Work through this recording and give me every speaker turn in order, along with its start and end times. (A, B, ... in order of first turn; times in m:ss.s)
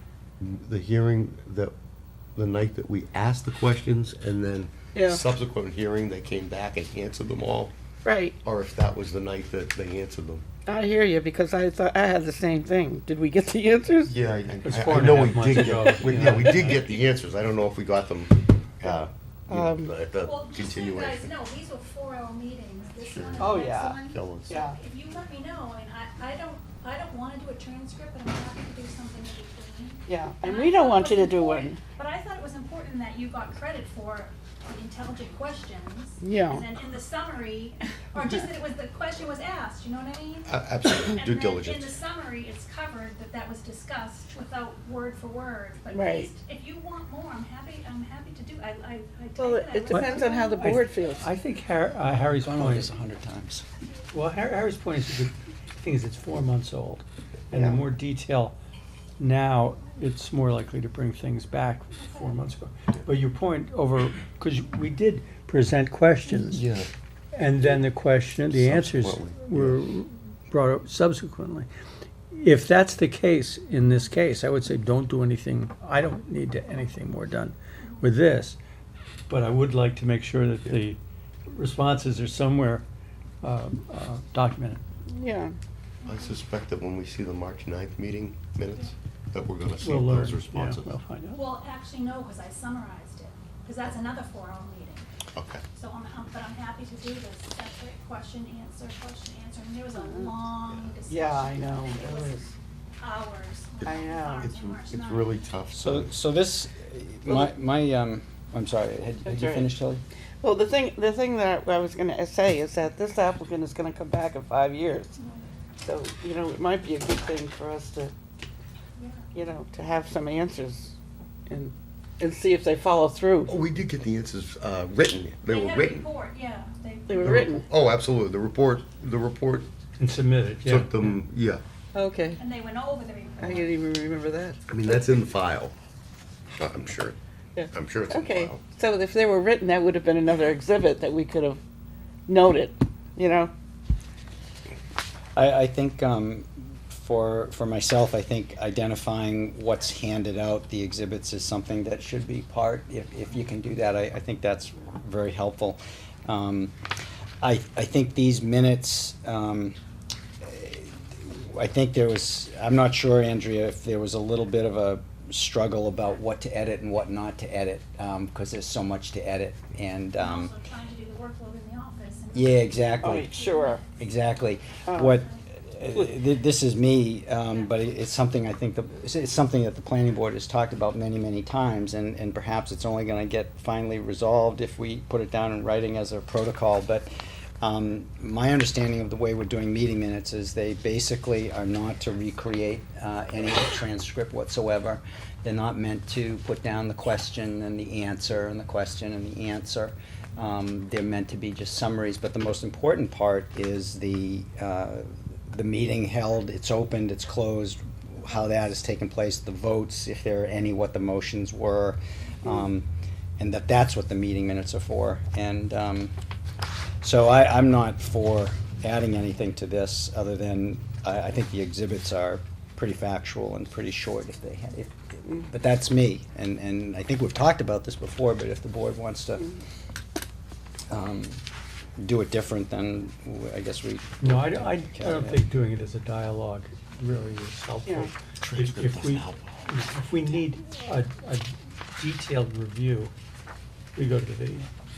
0:00.4-0:01.7 A
0:02.4-0:07.7 A
0:04.9-0:05.2 B
0:08.0-0:08.3 B
0:08.4-0:10.4 A
0:10.6-0:14.1 B
0:14.0-0:21.3 A
0:14.6-0:16.8 C
0:19.5-0:19.9 B
0:20.2-0:50.7 D
0:23.0-0:24.5 A
0:23.4-0:24.8 B
0:30.0-0:31.8 B
0:36.2-0:36.6 B
0:40.5-0:41.9 A
0:45.9-0:46.3 B
0:49.4-0:51.2 B
0:49.9-0:52.9 C
0:52.4-0:53.6 E
0:54.1-0:58.6 C
0:59.2-1:06.6 C
1:02.0-1:02.5 D
1:06.4-1:06.9 A
1:07.3-1:11.7 C
1:08.5-1:09.8 A
1:12.3-1:18.6 C
1:17.8-1:18.1 D
1:19.3-1:22.8 C
1:23.4-1:24.8 C
1:25.1-1:25.5 B
1:26.0-1:26.4 D
1:26.0-1:30.9 A
1:29.6-1:31.5 C
1:31.4-1:35.0 D
1:35.3-1:35.6 A
1:35.7-1:45.5 D
1:41.1-1:42.5 B
1:43.8-1:46.1 A
1:43.8-1:44.5 B
1:45.7-1:50.0 E
1:49.2-1:49.7 B
1:50.4-1:55.2 B
1:55.2-1:55.4 D
1:55.8-1:58.1 B
1:59.0-1:59.3 D
1:59.3-2:00.9 B
2:01.5-2:03.5 B
2:03.5-2:06.1 A
2:05.5-2:07.6 D
2:07.1-2:07.6 B
2:07.2-2:09.7 A
2:10.0-2:11.2 C
2:10.6-2:11.6 A
2:11.9-2:12.4 B
2:12.4-2:13.8 D
2:13.4-2:14.6 B
2:14.7-2:15.7 A
2:16.6-2:17.2 A
2:17.5-2:21.6 B
2:17.7-2:18.6 A
2:22.3-2:23.5 B
2:25.3-2:36.7 E
2:37.4-2:39.8 E
2:40.4-2:50.5 E
2:50.2-2:53.8 D
2:52.3-2:53.4 E
2:53.0-2:53.8 B
2:54.0-3:07.1 E
2:54.9-2:55.1 B
2:55.0-2:55.4 D
3:07.6-3:32.9 E
3:33.4-3:36.1 E
3:37.0-3:49.6 E
3:50.9-3:51.4 E
3:52.0-3:55.4 E
3:54.2-4:03.1 C
3:58.4-3:59.5 A
4:03.9-4:04.7 C